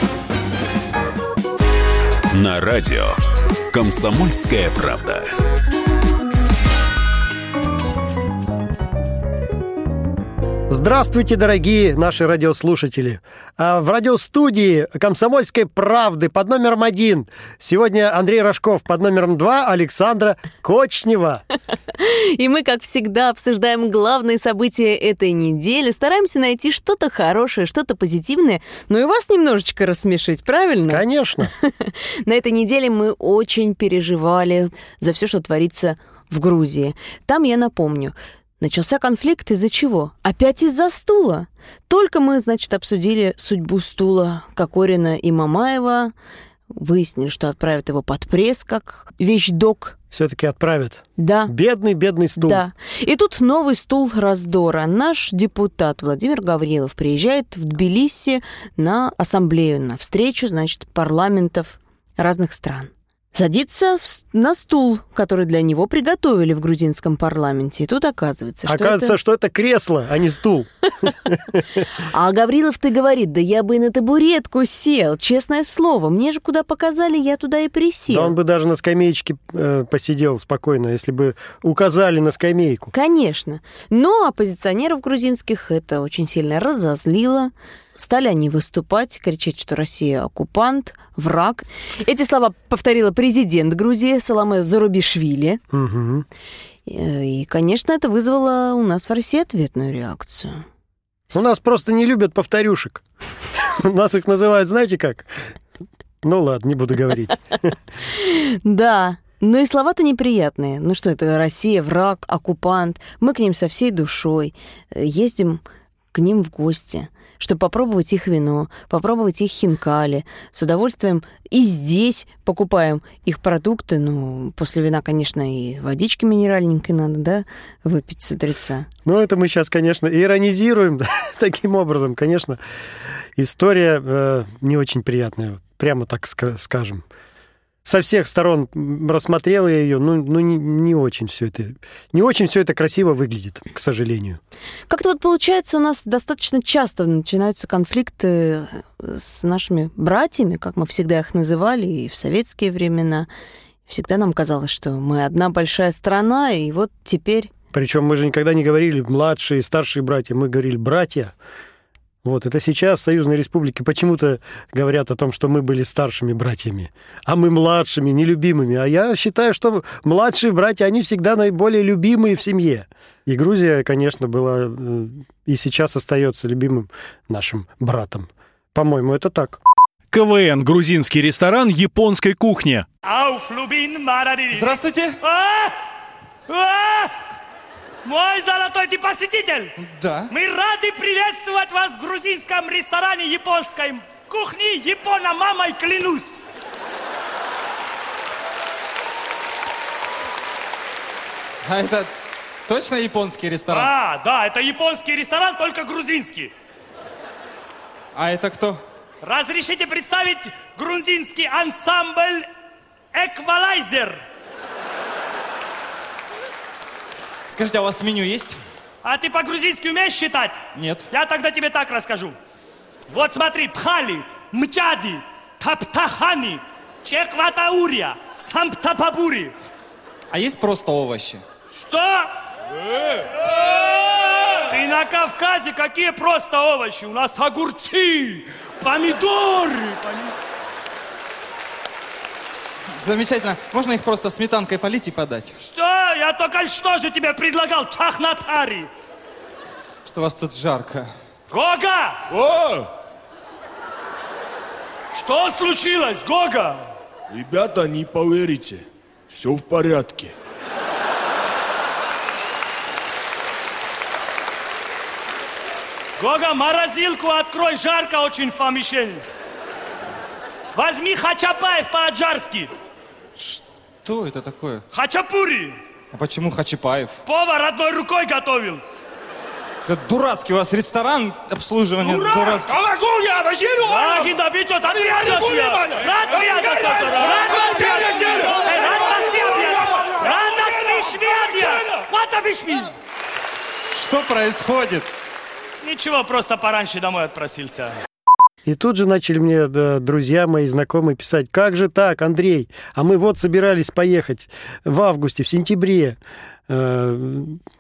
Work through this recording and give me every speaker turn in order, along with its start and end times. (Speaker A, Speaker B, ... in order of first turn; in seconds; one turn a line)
Speaker A: 2.3-3.2
Speaker A: 3.7-5.3
Speaker B: 10.7-21.4
Speaker C: 21.9-46.1
Speaker B: 30.9-31.5
Speaker C: 46.7-50.0
Speaker B: 50.1-52.6
Speaker C: 51.2-51.5
Speaker C: 52.4-69.2
Speaker B: 68.7-71.8
Speaker C: 72.0-78.3
Speaker B: 78.1-82.9
Speaker C: 82.9-95.6
Speaker B: 95.7-96.3
Speaker C: 96.9-100.7
Speaker B: 101.3-103.0
Speaker B: 103.7-105.5
Speaker B: 106.2-107.7
Speaker C: 108.1-115.6
Speaker C: 116.1-128.9
Speaker B: 129.1-132.6
Speaker B: 133.4-137.1
Speaker B: 137.8-144.4
Speaker C: 144.9-153.3
Speaker C: 153.9-157.5
Speaker B: 157.7-161.3
Speaker B: 162.2-179.6
Speaker D: 180.1-182.9
Speaker E: 183.0-185.7
Speaker F: 184.5-185.2
Speaker E: 186.5-187.1
Speaker E: 188.1-189.7
Speaker F: 189.8-190.3
Speaker E: 190.3-196.4
Speaker F: 201.6-202.1
Speaker F: 202.7-203.9
Speaker E: 203.7-206.5
Speaker F: 208.2-208.8
Speaker E: 209.2-212.5
Speaker E: 213.1-214.2
Speaker F: 217.5-218.6
Speaker E: 219.0-222.3
Speaker F: 220.7-221.1
Speaker E: 223.1-229.5
Speaker F: 230.3-231.4
Speaker E: 231.8-232.3
Speaker E: 234.7-240.2
Speaker F: 243.0-245.6
Speaker E: 245.6-248.9
Speaker F: 250.1-251.1
Speaker E: 251.5-252.2
Speaker G: 252.3-252.9
Speaker E: 255.2-256.8
Speaker G: 257.3-260.3
Speaker E: 266.2-269.2
Speaker E: 270.8-272.7
Speaker F: 273.4-274.8
Speaker E: 274.9-275.8
Speaker F: 276.1-277.2
Speaker E: 277.3-278.8
Speaker F: 279.9-282.7
Speaker E: 282.0-282.6
Speaker G: 282.8-284.3
Speaker E: 283.9-292.9
Speaker G: 285.2-288.6
Speaker F: 293.9-295.1
Speaker E: 295.8-298.0
Speaker B: 298.6-306.2
Speaker B: 306.7-307.6